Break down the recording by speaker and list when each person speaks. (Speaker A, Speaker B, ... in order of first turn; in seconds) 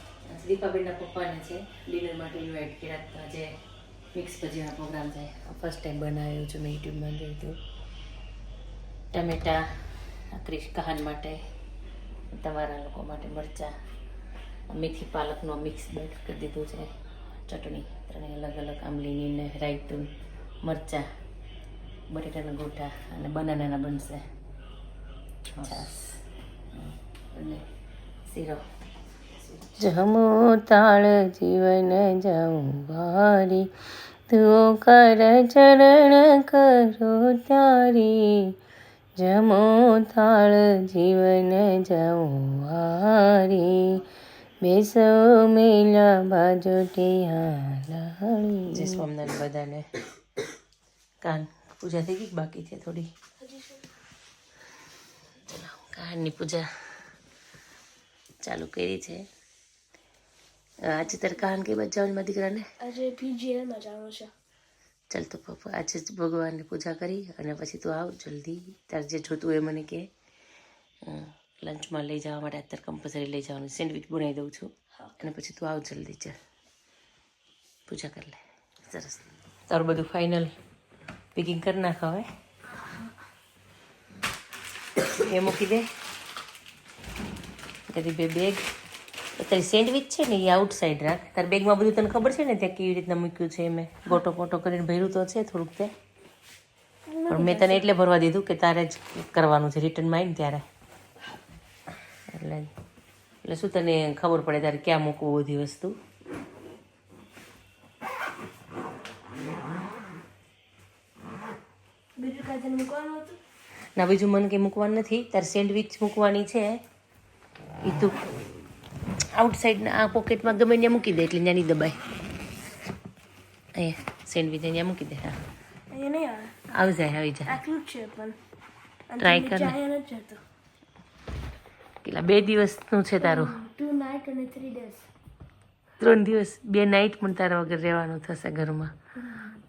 Speaker A: 0.3-3.5, 4.1-7.6, 9.1-9.7, 10.3-11.4, 12.3-13.7, 14.7-16.9, 17.5-20.1, 20.6-21.1, 22.1-24.2, 25.6-26.2, 26.8-27.6, 28.3-28.6, 29.6-33.7, 34.3-38.5, 39.2-44.0, 44.6-49.9, 51.2-53.1, 55.5-56.7, 58.4-59.3, 60.8-62.7, 65.1-70.1, 71.0-76.4, 77.9-80.5, 81.3-82.3, 85.1-85.9, 87.9-88.6, 89.4-95.9, 97.3-100.7, 102.3-102.7, 103.4-106.0, 114.0-116.8, 117.8-118.2, 119.3-122.0, 123.8-125.4, 126.7-127.6, 129.2-129.8, 132.0-133.6, 136.0-138.9
Speaker B: 53.4-53.9, 62.8-64.3, 97.1-97.9, 112.2-113.4, 125.9-126.7, 127.5-128.4, 129.1-130.4, 133.2-135.1, 139.2-139.6